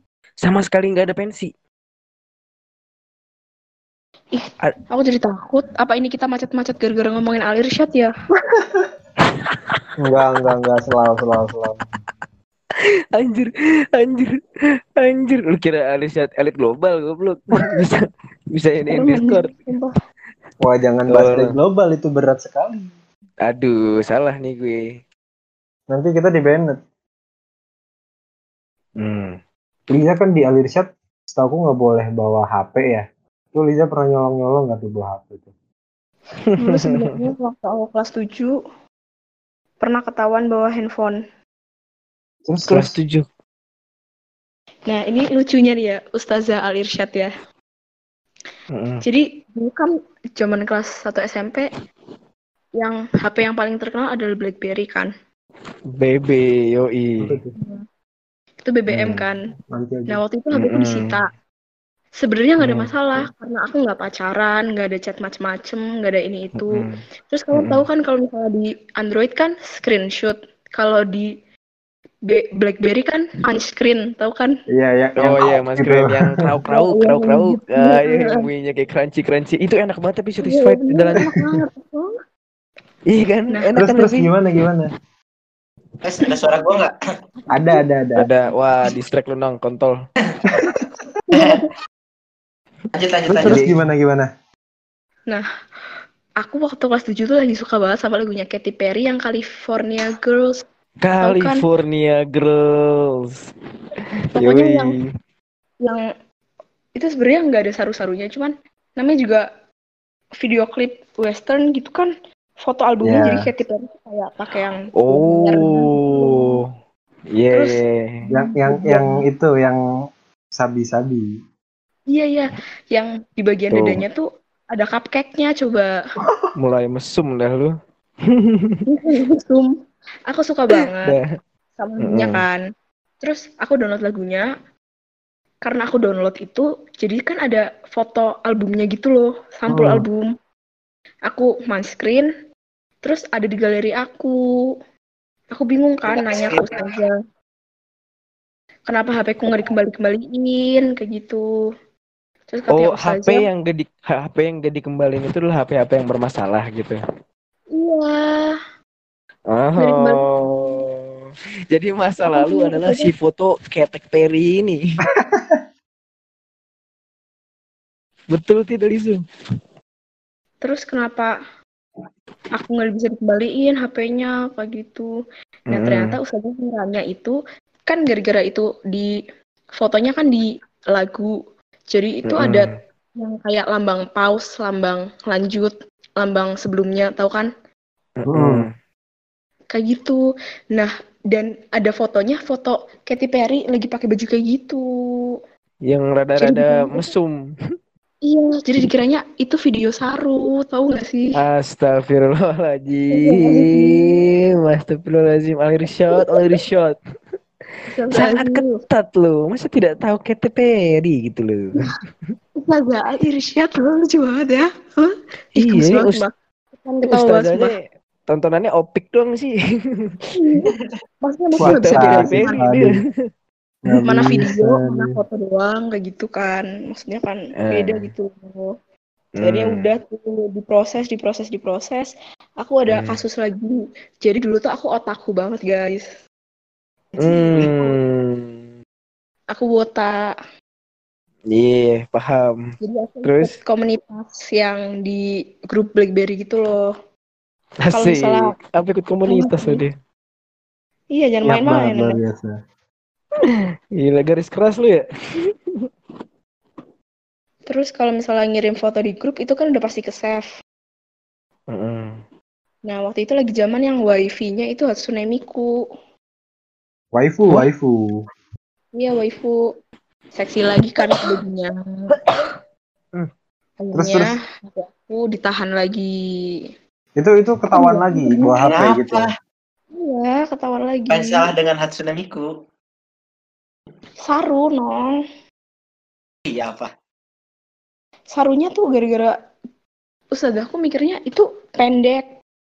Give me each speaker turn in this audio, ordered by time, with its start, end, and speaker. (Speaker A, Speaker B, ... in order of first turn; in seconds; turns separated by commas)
Speaker A: 0.4-1.5, Speaker B: 4.3-8.1, Speaker C: 8.6-8.9, Speaker A: 9.5-10.6, Speaker C: 10.0-11.8, Speaker A: 13.1-14.3, Speaker A: 15.0-19.5, Speaker B: 18.9-19.9, Speaker C: 20.6-22.9, Speaker A: 21.1-21.5, Speaker A: 23.4-25.0, Speaker C: 25.9-26.8, Speaker A: 29.0-29.4, Speaker C: 29.9-35.5, Speaker A: 36.5-37.0, Speaker B: 36.6-38.6, Speaker B: 39.8-41.2, Speaker C: 42.5-43.0, Speaker A: 42.7-43.2, Speaker B: 44.9-47.3, Speaker A: 48.7-49.0, Speaker B: 49.0-51.7, Speaker B: 52.8-55.1, Speaker A: 56.0-57.4, Speaker C: 57.2-57.5, Speaker B: 57.6-57.8, Speaker B: 58.6-59.4, Speaker A: 58.9-59.2, Speaker C: 59.7-60.2, Speaker B: 60.1-61.3, Speaker A: 60.5-61.2, Speaker B: 62.2-71.3, Speaker A: 62.6-63.2, Speaker A: 66.6-67.0, Speaker A: 67.5-67.8, Speaker B: 72.3-74.5, Speaker C: 74.7-76.4, Speaker A: 75.2-81.3, Speaker B: 76.7-78.5, Speaker B: 80.4-82.1, Speaker C: 81.2-81.4, Speaker A: 83.1-84.3, Speaker C: 83.8-84.9, Speaker D: 86.0-86.9, Speaker C: 87.5-88.3, Speaker B: 87.6-88.5, Speaker A: 88.2-90.0, Speaker B: 91.3-91.7, Speaker D: 91.3-91.6, Speaker D: 92.9-93.7, Speaker A: 93.3-93.8, Speaker C: 93.4-94.3, Speaker B: 96.4-100.6, Speaker A: 101.0-103.5, Speaker B: 101.2-101.6, Speaker B: 104.3-105.0, Speaker A: 104.3-105.0, Speaker B: 106.9-109.5, Speaker B: 110.4-112.1, Speaker B: 112.6-116.6, Speaker C: 113.0-113.4, Speaker A: 115.0-116.6, Speaker A: 117.3-118.3, Speaker B: 117.5-119.1, Speaker C: 118.3-119.8, Speaker C: 120.5-121.3, Speaker B: 122.1-125.9, Speaker A: 123.7-124.0, Speaker A: 126.6-127.7, Speaker A: 128.3-128.8, Speaker B: 128.9-129.7, Speaker B: 130.3-131.2, Speaker A: 130.8-131.3, Speaker B: 131.8-132.6, Speaker A: 132.0-132.4, Speaker B: 133.2-134.5, Speaker B: 135.6-140.3, Speaker A: 139.7-140.0, Speaker B: 141.3-142.3, Speaker B: 143.0-144.7, Speaker B: 145.5-147.2, Speaker D: 146.1-146.8, Speaker B: 148.9-151.4, Speaker B: 152.5-153.5, Speaker A: 152.7-157.0, Speaker B: 157.7-158.6, Speaker A: 159.5-161.2, Speaker B: 159.8-160.3, Speaker A: 161.7-164.8, Speaker B: 162.2-163.1, Speaker C: 165.2-165.6, Speaker A: 168.3-169.2, Speaker B: 170.6-171.3, Speaker B: 172.5-175.1, Speaker B: 175.7-179.1, Speaker A: 175.7-176.2, Speaker B: 179.8-181.3, Speaker B: 181.9-187.5, Speaker A: 182.3-182.7, Speaker A: 188.2-188.7, Speaker C: 188.3-188.7, Speaker B: 189.7-190.2, Speaker B: 190.7-195.4, Speaker A: 195.8-197.4, Speaker B: 196.4-197.1, Speaker B: 198.2-201.3, Speaker A: 201.3-207.0, Speaker B: 203.1-204.2, Speaker B: 206.1-206.6, Speaker B: 207.9-208.8, Speaker A: 208.1-212.3, Speaker B: 212.6-217.7, Speaker A: 215.5-216.2, Speaker A: 217.1-220.1, Speaker B: 220.3-222.6, Speaker C: 221.6-223.0, Speaker A: 221.6-223.1, Speaker C: 223.8-225.1, Speaker B: 224.0-228.7, Speaker A: 227.6-228.1, Speaker A: 229.4-229.9, Speaker B: 229.4-236.1, Speaker A: 232.9-233.2, Speaker D: 237.2-237.9, Speaker A: 237.2-238.7, Speaker B: 239.5-240.3, Speaker A: 241.5-242.7, Speaker B: 242.8-246.9, Speaker A: 243.2-243.5, Speaker A: 247.8-249.9, Speaker B: 247.9-248.5, Speaker B: 249.3-249.8, Speaker B: 251.1-252.2, Speaker C: 251.4-252.5, Speaker A: 253.4-255.9, Speaker B: 257.7-260.4, Speaker A: 261.7-262.2, Speaker B: 262.9-265.7, Speaker C: 267.1-268.2, Speaker B: 268.9-269.6, Speaker B: 270.3-272.4, Speaker B: 273.8-276.1, Speaker C: 273.9-274.4, Speaker C: 277.1-279.3, Speaker B: 277.7-278.5, Speaker D: 278.6-279.3, Speaker B: 279.9-281.5, Speaker D: 281.1-282.5, Speaker B: 284.2-285.1, Speaker D: 286.5-286.9, Speaker B: 288.3-289.3, Speaker B: 290.3-292.2